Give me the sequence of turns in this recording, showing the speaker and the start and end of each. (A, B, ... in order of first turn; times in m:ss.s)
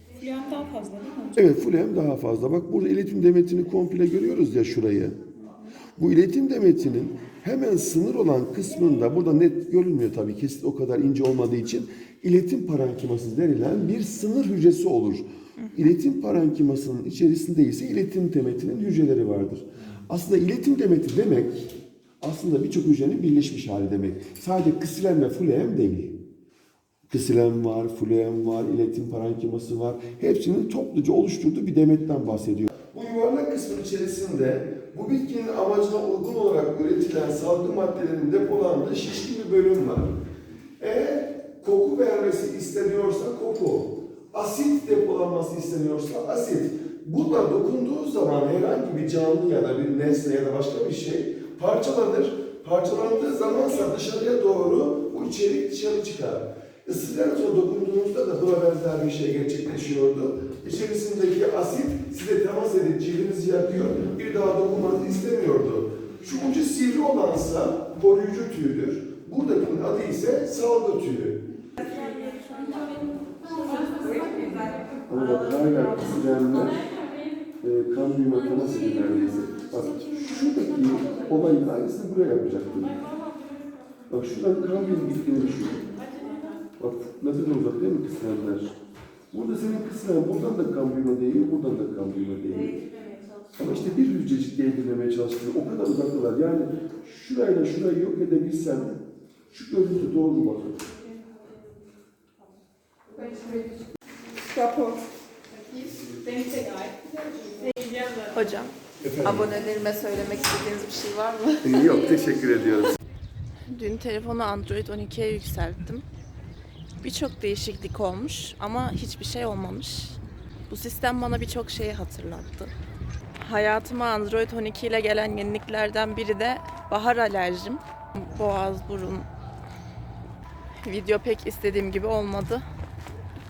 0:00.2-0:01.3 A
0:01.3-0:05.2 B
0:06.0-0:26.2 B
0:27.1-0:40.2 B
0:40.8-1:11.5 B
1:11.8-1:12.9 C
1:13.8-1:14.5 C
1:15.1-1:16.8 B
1:17.6-1:23.0 B
1:24.1-1:25.9 B
1:26.8-1:28.7 B
1:29.3-1:32.8 B
1:33.6-1:39.0 B
1:39.5-1:40.9 B
1:43.1-1:45.0 A
1:45.7-1:47.8 A
1:48.2-1:51.9 C
1:49.0-1:49.6 B
1:51.6-1:52.9 B
1:53.7-1:56.0 C
1:57.0-2:02.7 C
2:03.4-2:09.2 C
2:10.8-2:12.6 C